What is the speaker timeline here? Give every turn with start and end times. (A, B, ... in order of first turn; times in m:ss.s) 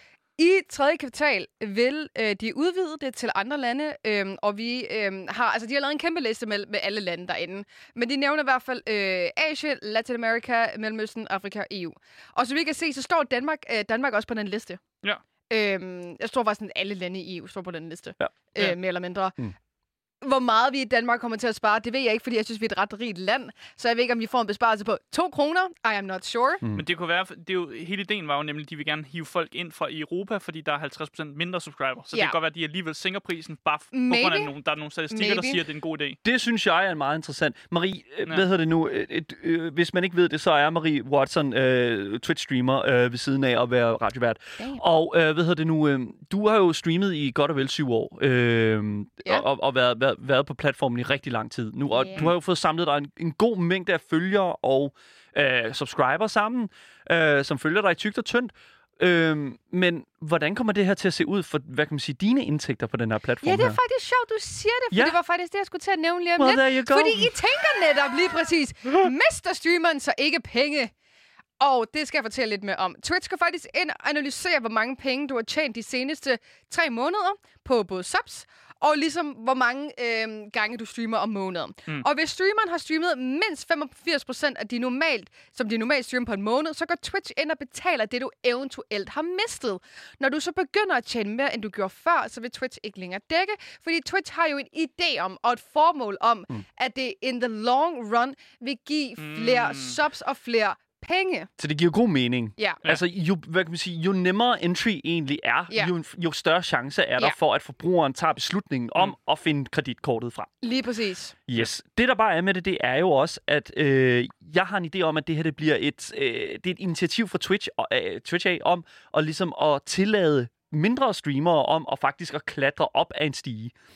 0:00.4-0:14.8 A
0:15.5-0:19.4 A
0:20.2-0:26.6 A
0:26.8-0:36.2 B
0:33.9-0:34.5 A
0:35.1-0:35.6 A
0:36.2-1:03.8 C
0:51.9-0:52.3 A
1:03.4-1:10.9 A
1:04.9-1:05.2 C
1:06.4-1:07.4 C
1:11.6-1:41.5 A
1:39.2-1:40.0 B
1:41.6-1:50.5 C
1:50.6-1:51.4 A
1:51.5-2:03.8 C